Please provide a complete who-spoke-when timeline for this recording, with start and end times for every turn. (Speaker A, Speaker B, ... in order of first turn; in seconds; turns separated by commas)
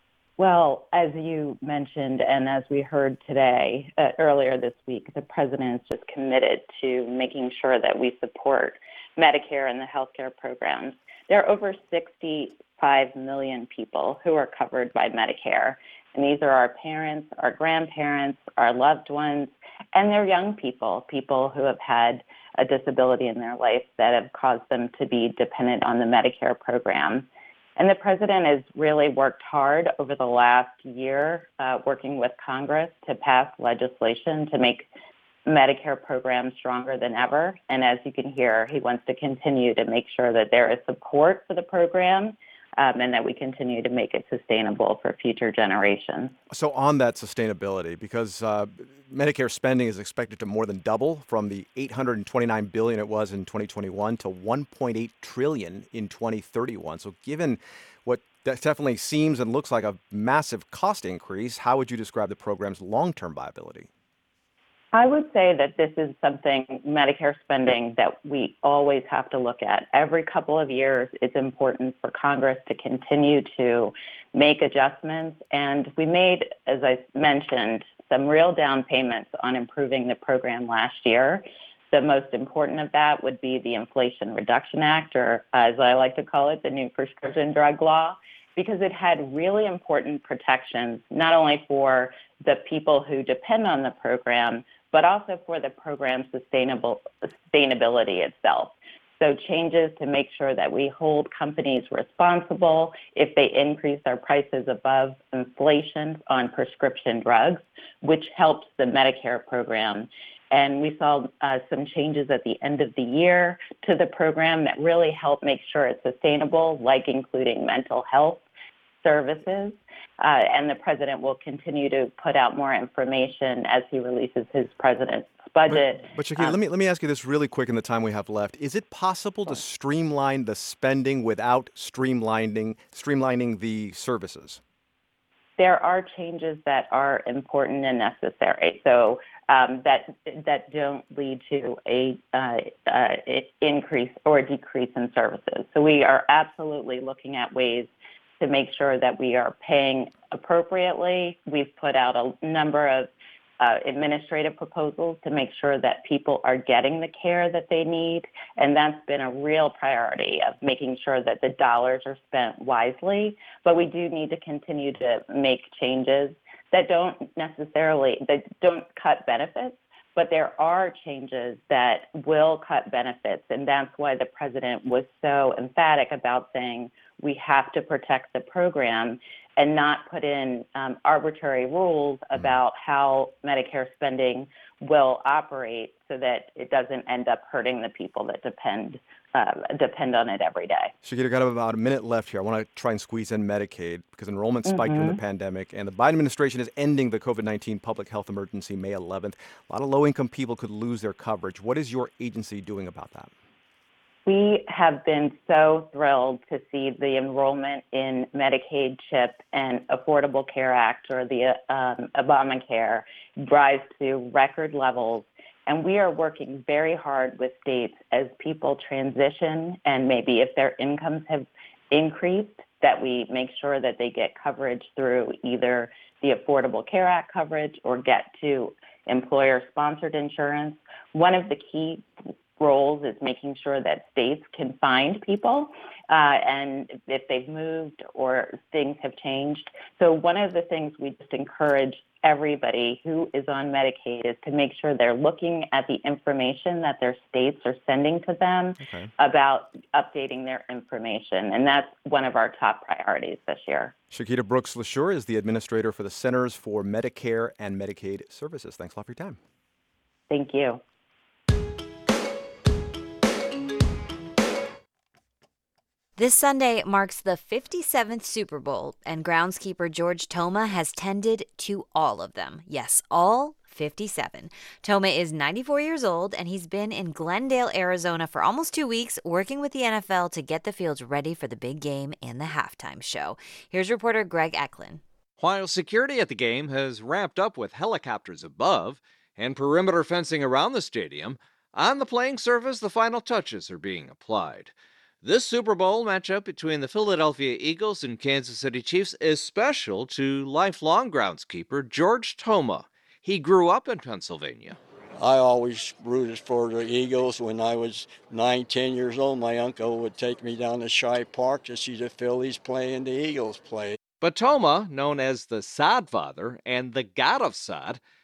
Speaker A: 0.4-27.2, Speaker A: 27.8-34.9, Speaker A: 35.5-46.3, Speaker B: 46.5-63.9, Speaker A: 64.9-118.4, Speaker A: 119.0-126.6, Speaker B: 125.7-134.6, Speaker A: 135.6-153.1, Speaker A: 153.6-190.9, Speaker B: 191.0-203.3, Speaker A: 194.7-195.2, Speaker A: 204.2-232.0, Speaker A: 232.6-253.9, Speaker B: 248.8-249.1, Speaker B: 254.1-259.4, Speaker A: 260.3-260.8, Speaker C: 266.2-285.0, Speaker D: 285.4-304.8, Speaker E: 305.2-314.0, Speaker D: 314.2-318.0